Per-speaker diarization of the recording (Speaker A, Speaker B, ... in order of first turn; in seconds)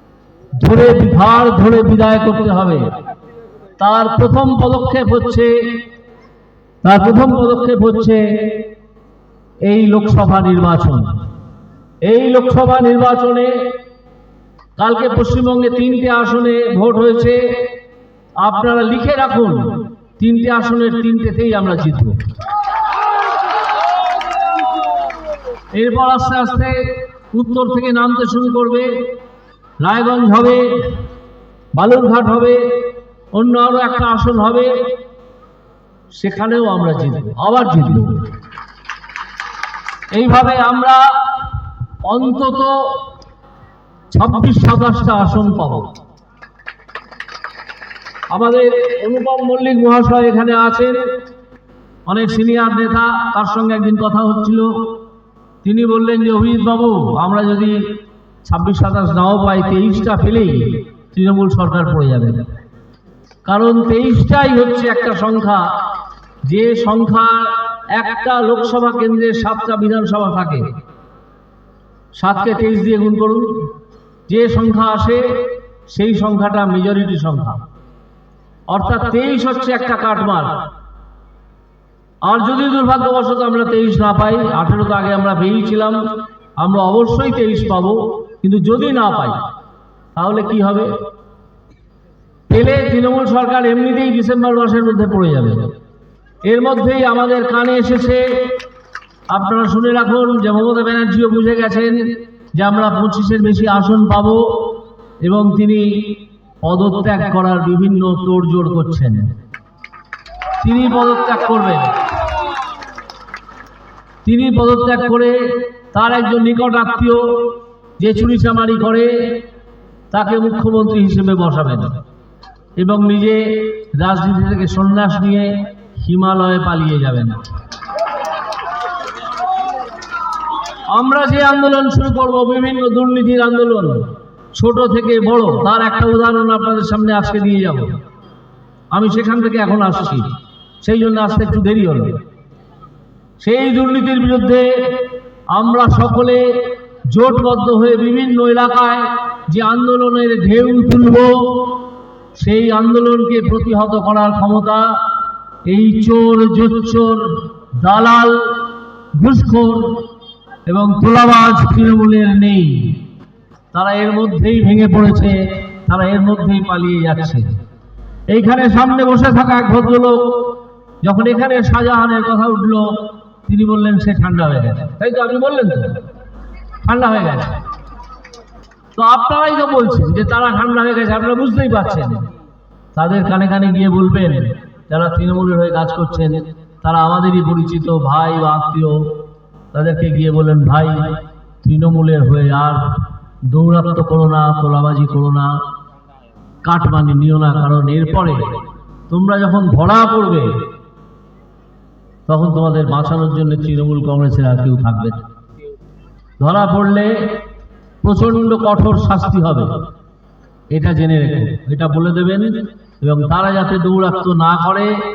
Speaker A: 0.6-2.9, 3.8-5.8, 6.8-8.7, 9.6-11.2, 12.1-13.7, 14.8-17.7, 18.4-22.2, 25.7-29.1, 29.8-31.0, 31.7-34.9, 36.2-38.2, 40.1-41.5, 42.0-43.1, 44.1-45.9, 48.3-51.0, 52.1-54.9, 55.6-57.8, 58.5-62.4, 63.5-65.7, 66.5-70.7, 72.2-73.6, 74.3-77.6, 78.7-80.5, 82.3-86.0, 86.6-89.4, 90.2-90.9, 92.5-95.7, 96.4-98.6, 99.3-109.3, 110.6-112.0, 114.2-119.4, 120.1-121.9, 122.8-127.4, 130.9-134.0, 134.6-137.9, 138.9-140.3, 140.8-142.2, 143.4-151.8, 152.4-155.0, 155.7-160.1, 160.7-163.0, 163.7-167.4, 168.3-176.0, 176.8-177.6, 178.9-182.3, 182.9-189.1, 189.7-195.6, 196.6-198.5, 199.1-200.6, 202.3-205.2, 206.4-207.4, 208.0-209.7, 210.7-215.0